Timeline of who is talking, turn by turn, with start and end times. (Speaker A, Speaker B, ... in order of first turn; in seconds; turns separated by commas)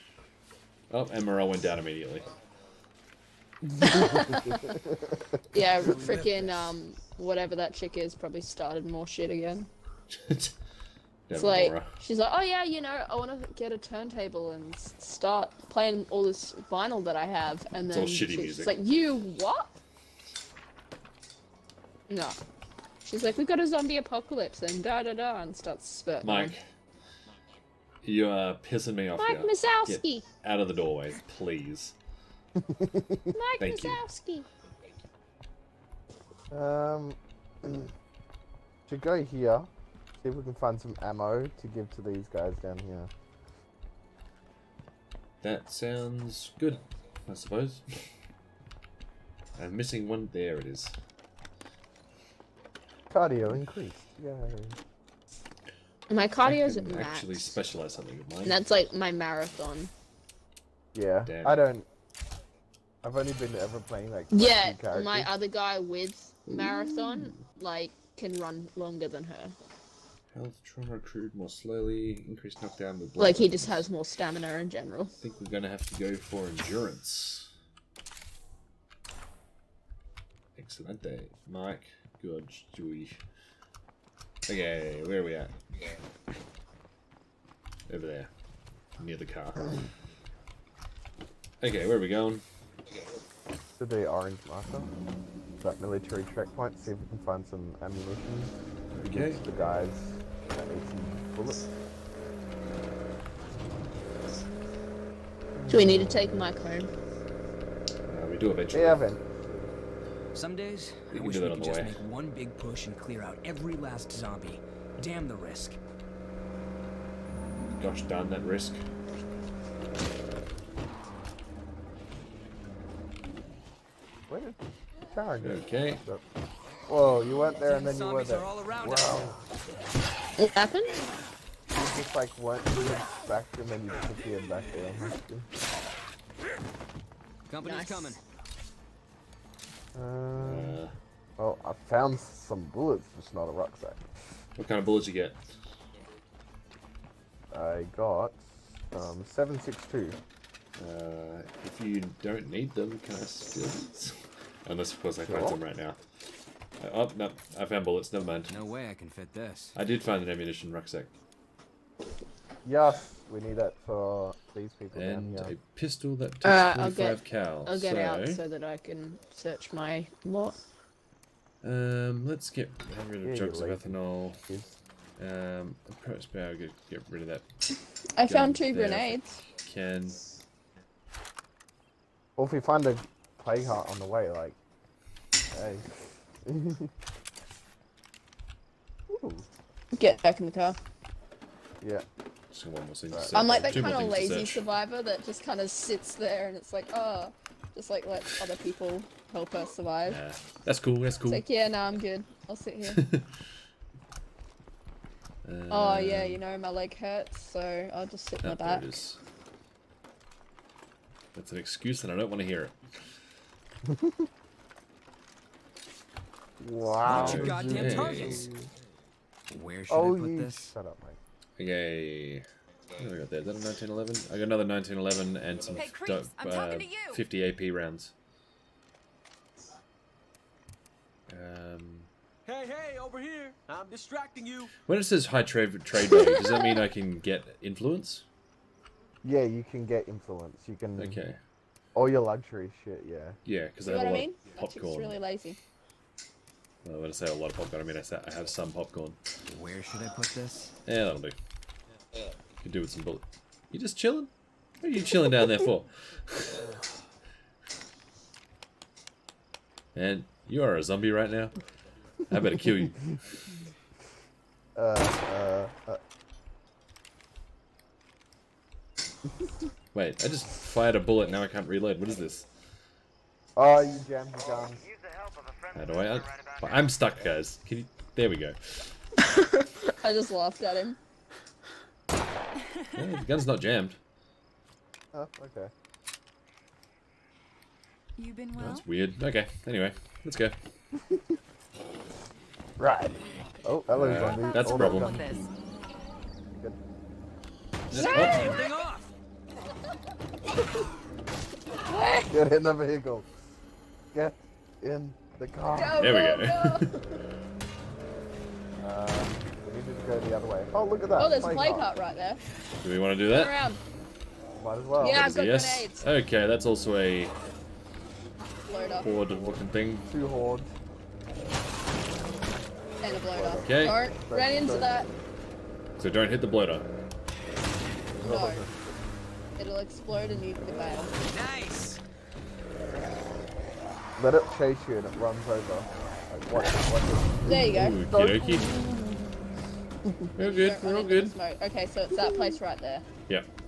Speaker A: 0.9-2.3, Speaker B: 3.8-5.9, Speaker C: 3.8-4.8, Speaker C: 5.5-9.7, Speaker D: 6.0-6.5, Speaker A: 10.1-10.5, Speaker A: 11.3-11.9, Speaker C: 11.3-19.8, Speaker A: 17.9-18.8, Speaker C: 22.1-22.4, Speaker C: 23.0-26.6, Speaker A: 26.2-26.6, Speaker A: 28.0-31.9, Speaker C: 29.2-30.3, Speaker B: 32.6-33.4, Speaker C: 33.3-34.5, Speaker A: 33.6-34.0, Speaker B: 36.5-37.9, Speaker B: 38.9-39.7, Speaker B: 40.2-43.1, Speaker A: 45.4-48.0, Speaker A: 49.6-51.0, Speaker B: 53.1-54.8, Speaker C: 56.1-57.6, Speaker A: 56.4-58.6, Speaker C: 58.5-59.9, Speaker B: 60.9-61.9, Speaker A: 61.2-61.7, Speaker B: 63.0-65.3, Speaker C: 64.3-69.5, Speaker A: 66.5-67.4, Speaker A: 70.3-73.8, Speaker C: 73.2-75.1, Speaker A: 75.2-77.5, Speaker A: 80.6-83.2, Speaker A: 84.5-85.5, Speaker A: 87.9-88.3, Speaker A: 89.0-89.8, Speaker A: 91.6-92.4, Speaker B: 93.8-94.9, Speaker B: 95.6-101.8, Speaker A: 98.9-99.4, Speaker B: 105.6-106.5, Speaker C: 105.7-106.9, Speaker A: 108.1-109.0, Speaker B: 108.7-109.7, Speaker D: 110.3-115.8, Speaker A: 111.1-112.0, Speaker A: 117.8-118.8, Speaker B: 124.3-126.2, Speaker A: 125.4-126.0, Speaker B: 126.9-129.4, Speaker D: 127.3-129.4, Speaker C: 130.4-131.0, Speaker B: 131.7-135.5, Speaker D: 137.5-138.2, Speaker C: 137.6-138.2, Speaker B: 139.9-140.8, Speaker A: 140.4-140.9, Speaker B: 141.4-144.0, Speaker A: 144.6-145.4, Speaker B: 147.5-150.2, Speaker A: 150.8-156.0, Speaker B: 155.3-155.6, Speaker A: 156.8-158.6, Speaker D: 158.5-159.8, Speaker A: 159.8-161.1, Speaker B: 162.6-165.5, Speaker A: 164.9-168.4, Speaker C: 166.4-170.6, Speaker A: 171.6-174.4, Speaker B: 173.2-174.8, Speaker A: 175.2-177.4, Speaker C: 178.2-179.4, Speaker A: 178.2-180.2, Speaker B: 182.4-184.6, Speaker B: 185.5-186.9, Speaker B: 189.1-189.5, Speaker C: 189.9-190.8, Speaker A: 192.5-194.6, Speaker B: 193.1-193.9, Speaker C: 193.3-200.2, Speaker A: 200.1-201.4, Speaker C: 201.3-203.0, Speaker A: 202.9-203.3, Speaker A: 205.4-206.4, Speaker C: 205.7-208.9, Speaker A: 208.4-209.2, Speaker A: 211.3-212.8, Speaker B: 213.8-214.3, Speaker B: 216.6-218.7, Speaker D: 217.0-218.5, Speaker A: 217.1-218.5, Speaker D: 219.5-220.7, Speaker B: 219.9-221.2, Speaker A: 221.6-228.1, Speaker E: 225.7-227.2, Speaker A: 231.3-232.1, Speaker F: 232.4-234.7, Speaker A: 234.8-238.3, Speaker C: 236.1-236.6, Speaker B: 239.2-241.2, Speaker A: 241.0-241.4, Speaker B: 241.9-243.4, Speaker A: 243.4-245.2, Speaker C: 243.9-245.6, Speaker A: 246.8-249.2, Speaker D: 249.5-250.7, Speaker A: 250.9-251.4, Speaker A: 252.6-256.7, Speaker A: 259.9-261.6, Speaker A: 262.3-263.2, Speaker B: 264.8-266.0, Speaker A: 269.9-272.5, Speaker B: 273.6-274.8, Speaker G: 274.6-277.0, Speaker A: 275.7-278.9, Speaker C: 279.2-281.0, Speaker A: 282.9-284.0, Speaker B: 285.1-285.7, Speaker E: 288.2-288.9, Speaker A: 288.6-290.6, Speaker B: 290.9-291.4, Speaker B: 292.8-295.2, Speaker A: 293.9-295.2, Speaker E: 294.0-295.5, Speaker A: 297.9-298.6, Speaker C: 297.9-298.7, Speaker D: 297.9-299.1, Speaker C: 301.8-302.3, Speaker B: 302.3-303.3, Speaker B: 304.1-306.1, Speaker C: 305.7-307.2, Speaker A: 306.0-307.0, Speaker B: 308.8-311.9, Speaker C: 311.2-312.6, Speaker A: 312.8-313.6, Speaker C: 313.3-313.8, Speaker B: 314.6-315.3, Speaker C: 315.0-316.1, Speaker A: 315.0-317.4, Speaker C: 318.7-319.1, Speaker A: 319.0-320.1, Speaker B: 320.1-320.7, Speaker B: 323.0-325.0, Speaker C: 323.0-325.1, Speaker A: 323.6-324.0, Speaker A: 326.0-326.9, Speaker B: 328.1-329.0, Speaker C: 328.2-328.6, Speaker C: 329.6-331.2, Speaker D: 331.3-332.0, Speaker B: 334.2-337.8, Speaker C: 337.5-338.9, Speaker A: 337.5-338.7, Speaker C: 340.1-343.1, Speaker A: 340.3-341.4